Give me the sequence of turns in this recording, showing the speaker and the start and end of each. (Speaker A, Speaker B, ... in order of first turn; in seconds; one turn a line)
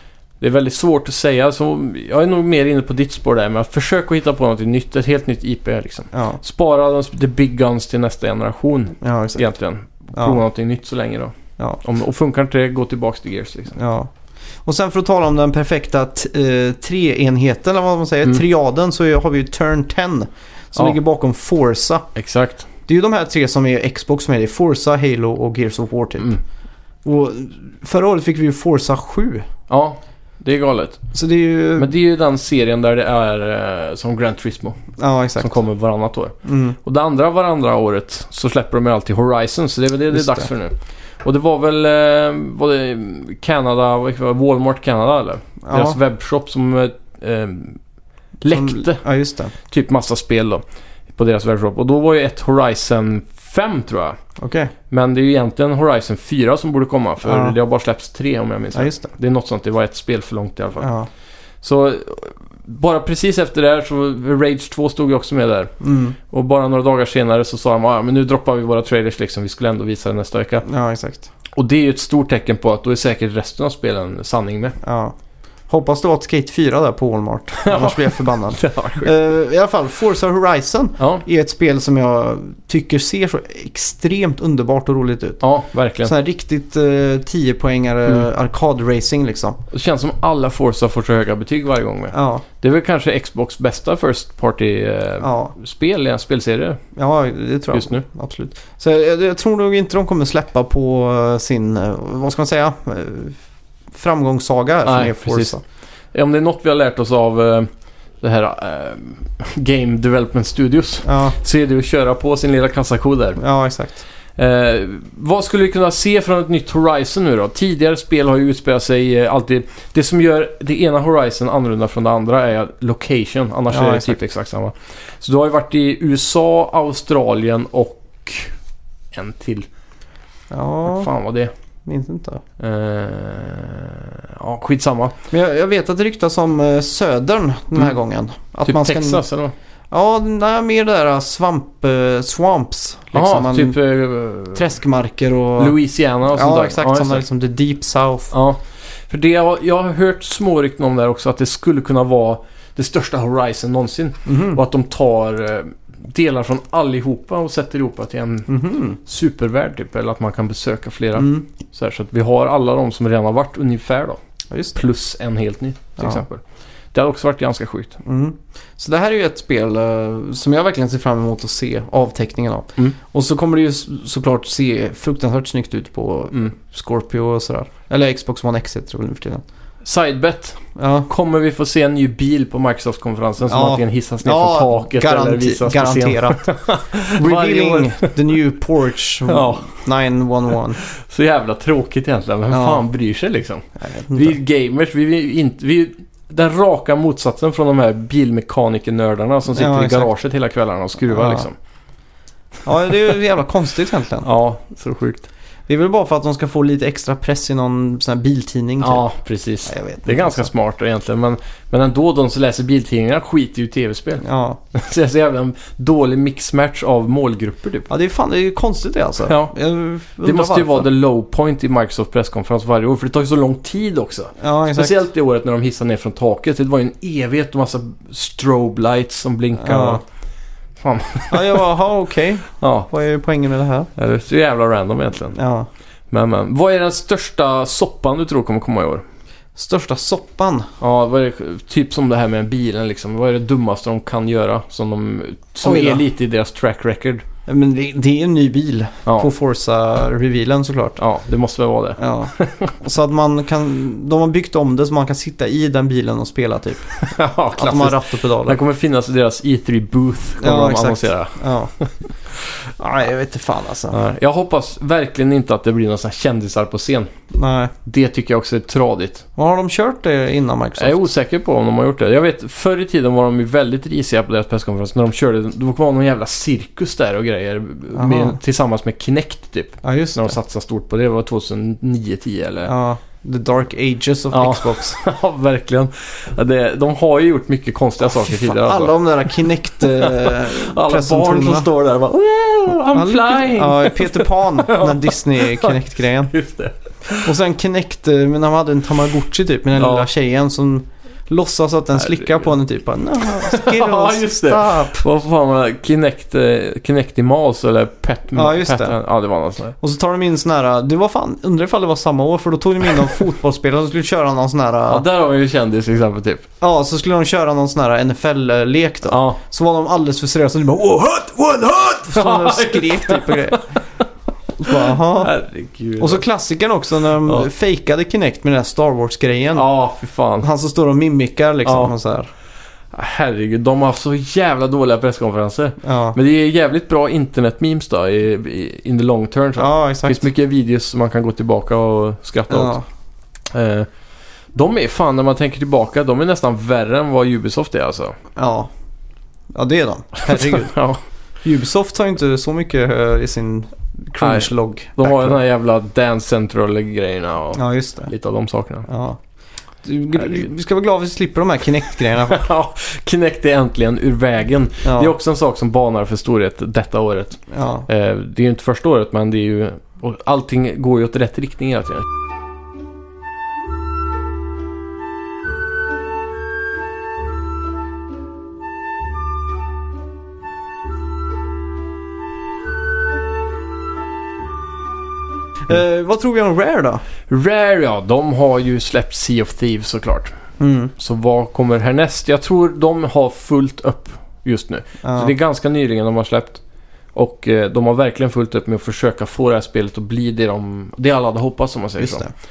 Speaker A: 0.4-13.8
Speaker B: 6.1-6.4
Speaker B: 9.0-9.4
Speaker B: 10.1-10.4
Speaker B: 13.7-14.1
Speaker B: 14.6-22.1
Speaker A: 22.1-22.7
Speaker B: 22.9-26.4
Speaker B: 27.0-29.5
Speaker A: 29.7-31.0
Speaker B: 31.1-31.9
Speaker A: 31.8-34.8
Speaker B: 35.0-35.5
Speaker A: 35.4-47.8
Speaker B: 36.4-36.8
Speaker B: 40.1-40.5
Speaker B: 45.6-46.0
Speaker A: 48.4-49.0
Speaker B: 48.5-49.5
Speaker A: 49.6-50.6
Speaker A: 51.1-54.2
Speaker B: 54.4-54.7
Speaker A: 54.9-60.9
Speaker B: 57.2-57.5
Speaker B: 58.7-59.1
Speaker B: 60.8-61.1
Speaker A: 61.6-65.7
Speaker B: 65.8-66.2
Speaker A: 66.3-70.6
Speaker B: 70.6-71.3
Speaker A: 71.5-74.8
Speaker B: 74.8-75.1
Speaker B: 75.7-85.4
Speaker A: 77.6-79.1
Speaker A: 81.0-81.2
Speaker A: 85.4-86.1
Speaker B: 86.0-89.6
Speaker A: 89.7-96.8
Speaker B: 92.1-92.4
Speaker B: 95.2-95.5
Speaker B: 97.0-103.4
Speaker A: 97.7-98.0
Speaker B: 103.9-105.6
Speaker A: 104.8-105.6
Speaker A: 106.1-107.7
Speaker A: 108.2-113.4
Speaker B: 111.0-111.4
Speaker B: 113.4-114.0
Speaker A: 114.3-128.5
Speaker B: 123.7-124.2
Speaker A: 129.1-129.7
Speaker B: 130.5-131.1
Speaker A: 130.8-131.5
Speaker B: 131.8-132.4
Speaker A: 132.6-135.2
Speaker B: 135.3-139.2
Speaker A: 138.6-139.5
Speaker B: 139.9-143.8
Speaker A: 143.1-144.7
Speaker B: 144.5-145.8
Speaker A: 145.6-147.2
Speaker B: 146.3-148.3
Speaker A: 148.3-164.2
Speaker B: 154.2-154.6
Speaker B: 158.5-159.0
Speaker B: 161.2-161.5
Speaker A: 164.7-166.4
Speaker A: 166.9-168.0
Speaker B: 168.0-179.4
Speaker A: 179.8-188.1
Speaker B: 180.8-181.1
Speaker B: 183.4-186.5
Speaker B: 187.1-190.8
Speaker A: 189.2-189.7
Speaker A: 190.8-201.5
Speaker B: 192.5-192.8
Speaker B: 193.8-194.4
Speaker B: 199.5-200.1
Speaker B: 201.1-201.5
Speaker B: 202.6-204.3
Speaker A: 204.2-205.3
Speaker B: 205.7-209.0
Speaker A: 208.8-214.2
Speaker B: 209.6-210.5
Speaker B: 214.2-214.6
Speaker A: 214.7-217.9
Speaker B: 217.9-220.9
Speaker A: 219.2-219.5
Speaker A: 220.2-230.0
Speaker B: 224.4-225.0
Speaker B: 229.6-230.0
Speaker A: 230.8-231.6
Speaker B: 231.3-233.9
Speaker A: 232.6-232.9
Speaker A: 234.0-235.3
Speaker B: 235.3-235.7
Speaker A: 236.1-239.0
Speaker B: 239.6-240.7
Speaker A: 240.8-247.2
Speaker B: 245.6-246.0
Speaker B: 247.5-251.0
Speaker A: 251.0-252.7
Speaker B: 252.0-257.0
Speaker A: 257.0-262.5
Speaker B: 257.6-258.6
Speaker B: 260.4-261.7
Speaker B: 262.8-264.0
Speaker A: 263.9-267.1
Speaker B: 267.3-267.7
Speaker A: 267.8-269.2
Speaker B: 269.4-271.0
Speaker A: 270.8-282.7
Speaker B: 277.9-278.4
Speaker B: 279.8-280.4
Speaker B: 282.6-285.0
Speaker A: 284.3-297.3
Speaker B: 288.0-291.7
Speaker B: 292.9-296.3
Speaker B: 297.2-305.1
Speaker A: 299.8-300.1
Speaker A: 302.0-302.5
Speaker A: 303.2-309.7
Speaker B: 308.3-309.0
Speaker B: 309.8-315.0
Speaker A: 314.9-316.4
Speaker B: 316.6-323.6
Speaker A: 319.1-319.4
Speaker A: 322.0-324.0
Speaker B: 324.6-325.3
Speaker A: 324.6-326.2
Speaker B: 326.0-329.6
Speaker A: 329.5-330.5
Speaker B: 330.4-332.3
Speaker A: 331.6-331.9
Speaker A: 332.9-342.8
Speaker B: 335.8-336.2
Speaker B: 339.6-340.2
Speaker B: 342.5-342.8
Speaker A: 343.5-343.9
Speaker A: 344.5-348.1
Speaker B: 348.4-348.7
Speaker B: 349.5-350.8
Speaker A: 350.2-351.0
Speaker B: 351.4-355.4
Speaker A: 354.2-358.9
Speaker B: 357.5-358.1
Speaker B: 358.9-359.2
Speaker B: 359.8-362.5
Speaker A: 360.2-360.5
Speaker A: 362.1-372.1
Speaker B: 364.8-365.1
Speaker B: 367.5-367.9
Speaker B: 385.7-387.0
Speaker A: 387.3-390.3
Speaker B: 390.6-390.9
Speaker A: 391.0-396.6
Speaker B: 395.0-395.3
Speaker A: 397.1-402.2
Speaker B: 402.0-402.3